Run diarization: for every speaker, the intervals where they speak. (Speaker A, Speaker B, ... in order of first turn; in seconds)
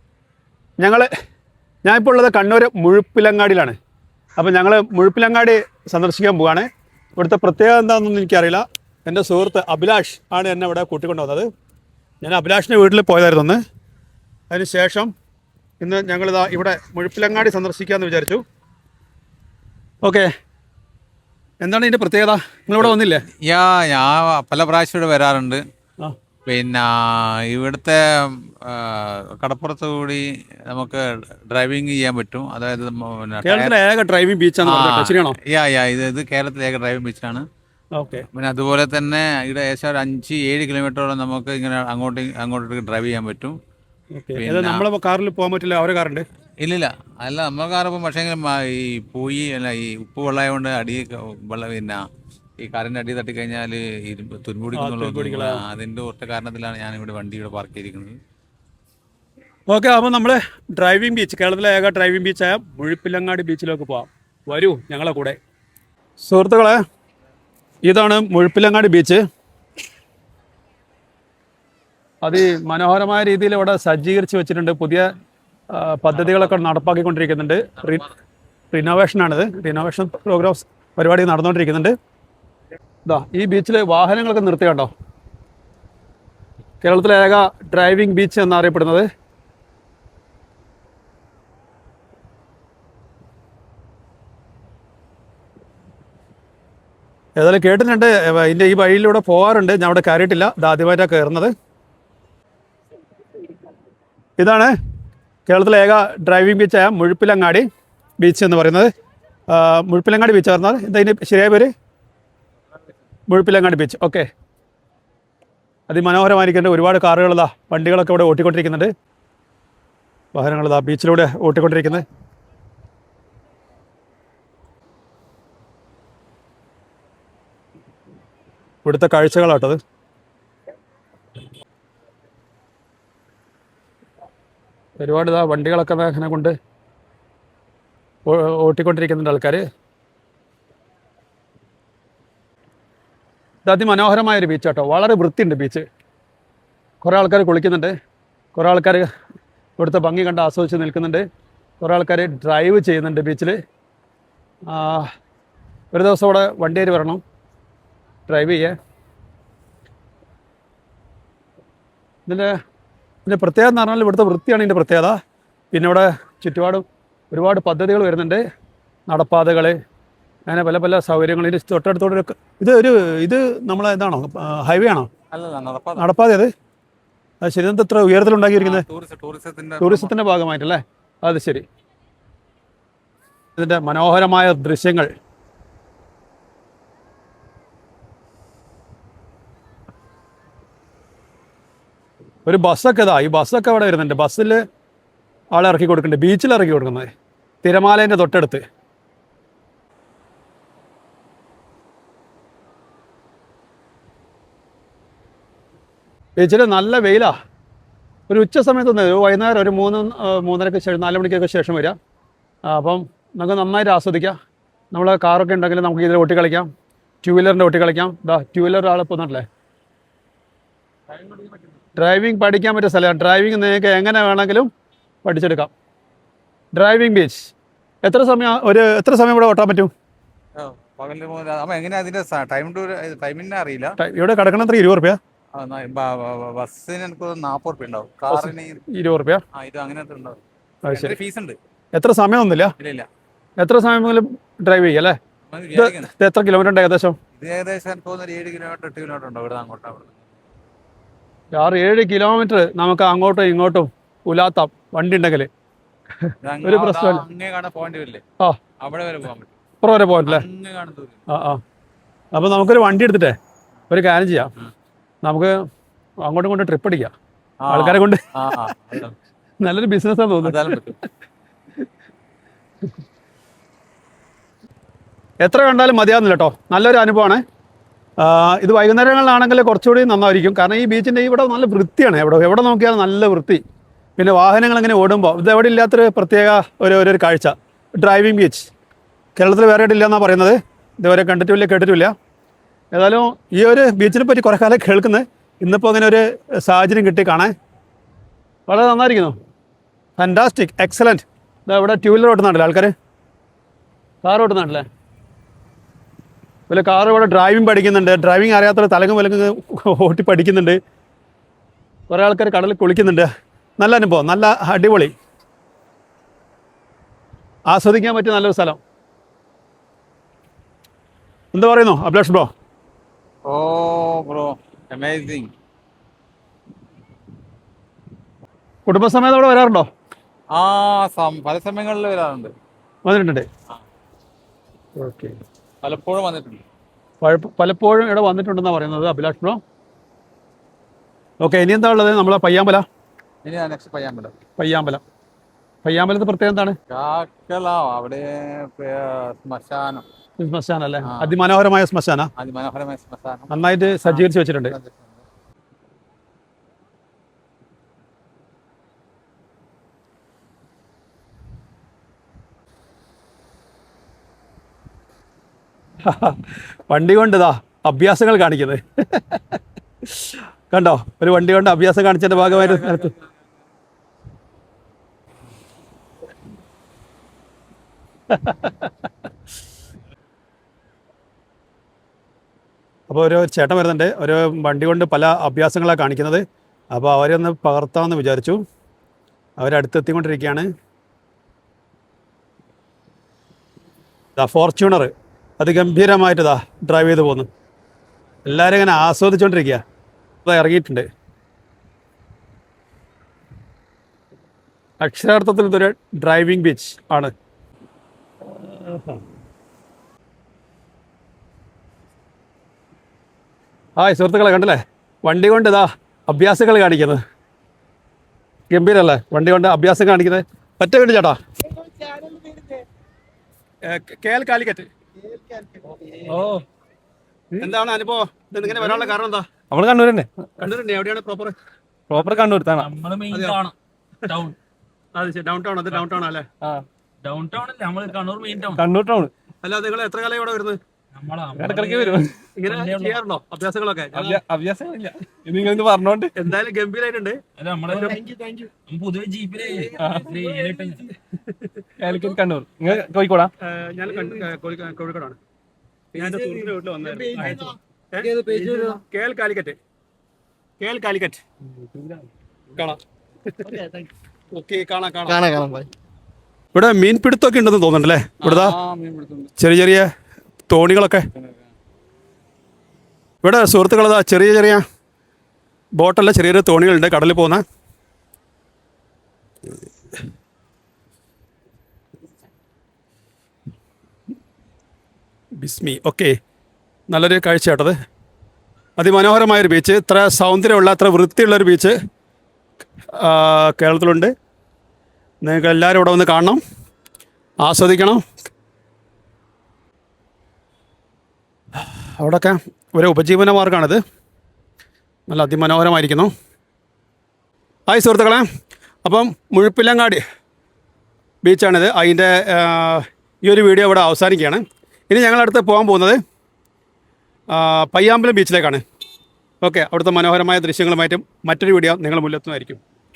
Speaker A: 0.8-1.1, 1.8-3.8, 4.4-11.5, 12.2-13.6, 14.5-15.1, 15.8-18.4, 20.0-20.3, 21.6-23.2, 33.4-35.4, 38.0-38.2, 44.1-46.2, 54.8-55.6, 59.7-65.4, 66.2-66.8, 67.8-69.2, 72.2-75.1, 75.7-78.0, 78.7-81.9, 83.1-84.9, 86.8-89.0, 97.4-101.5, 104.4-104.7, 105.5-107.7, 108.2-108.9, 109.5-111.7, 113.3-114.3, 115.9-118.9, 120.3-122.0, 128.8-129.8, 135.0-136.5, 138.3-139.6, 143.7-145.8, 147.0-147.9, 148.6-149.1, 149.8-151.2, 151.8-153.6, 154.7-155.1, 155.9-157.2, 158.3-158.8, 162.3-162.5, 163.3-165.2, 165.7-168.4, 169.1-169.8, 170.5-175.1, 176.0-176.5, 177.4-178.8, 179.8-181.6, 183.6-185.1, 192.5-194.6, 195.5-197.1, 197.6-198.6, 206.4-207.3, 208.3-211.9, 212.7-214.4, 214.9-216.7, 217.2-219.4, 222.0-224.7, 225.2-225.7, 226.7-227.5, 228.0-229.9, 234.0-235.2, 238.3-239.4, 240.9-241.2, 241.9-242.7, 243.6-245.2, 245.8-247.2, 251.6-255.5, 256.6-257.2, 259.8-260.4, 261.3-261.6, 262.3-263.3, 263.9-264.5, 265.2-265.5, 266.2-267.1, 267.7-268.7, 269.6-270.7, 275.4-277.4, 278.2-283.6, 284.2-288.7, 289.4-292.1, 292.9-297.5, 298.7-299.3, 300.2-302.9, 304.2-304.9, 306.7-310.8, 312.1-313.3, 313.8-315.1, 317.7-318.8, 321.5-322.5, 328.9-329.9, 333.1-333.5, 335.0-335.3, 337.2-339.6, 341.4-342.8, 344.6-345.0, 345.8-346.8, 350.4-352.3, 353.5-354.7, 366.1-366.4, 366.9-369.6, 370.7-373.1, 378.4-378.8, 383.1-388.6, 389.6-390.7, 394.4-397.5, 398.5-399.8, 400.4-401.1, 405.0-407.3, 408.8-409.2, 414.0-417.2, 418.7-421.4, 423.9-424.9, 427.6-429.4, 430.6-431.5, 433.3-433.6, 435.2-436.4, 439.6-440.8, 442.6-444.4, 446.4-447.4, 447.9-448.7, 453.6-455.4, 456.1-459.8, 460.8-461.4, 462.7-463.0, 464.5-465.6, 466.7-468.8, 469.6-470.1, 470.7-471.2, 473.4-474.8, 476.0-477.6, 485.6-486.3, 487.1-487.9, 489.0-491.9, 493.2-494.3, 495.4-496.6, 497.6-498.2, 501.8-504.0, 505.3-506.3, 507.9-508.5, 509.0-510.2, 511.4-516.2, 517.5-518.8, 519.6-522.8
Speaker B: 23.5-25.6, 26.5-33.7, 34.6-37.4, 38.3-43.6, 44.4-44.8, 46.6-52.0, 52.6-58.2, 76.1-76.5, 175.3-176.0, 178.6-180.1, 230.6-234.0, 235.6-238.8, 239.6-241.6, 242.8-243.1, 245.5-246.1, 247.4-250.1, 256.4-258.2, 258.8-259.5, 260.3-261.2, 267.6-269.1, 270.4-271.0, 323.5-325.5, 330.6-332.5, 335.8-336.6, 343.4-344.3, 346.9-350.0, 351.1-351.3, 352.4-355.1, 372.4-373.2, 468.4-469.5, 471.4-471.7
Speaker C: 421.8-422.7, 458.5-458.9, 465.3-465.9
Speaker D: 426.3-426.6, 432.8-433.7, 434.3-434.6, 437.2-438.8, 441.1-443.2, 447.6-448.2, 448.8-451.0
Speaker E: 428.7-429.1, 429.7-430.3, 432.1-432.9, 438.7-439.3, 441.6-442.4, 444.1-446.4, 449.9-450.6, 452.0-453.5, 457.4-457.7, 461.9-462.2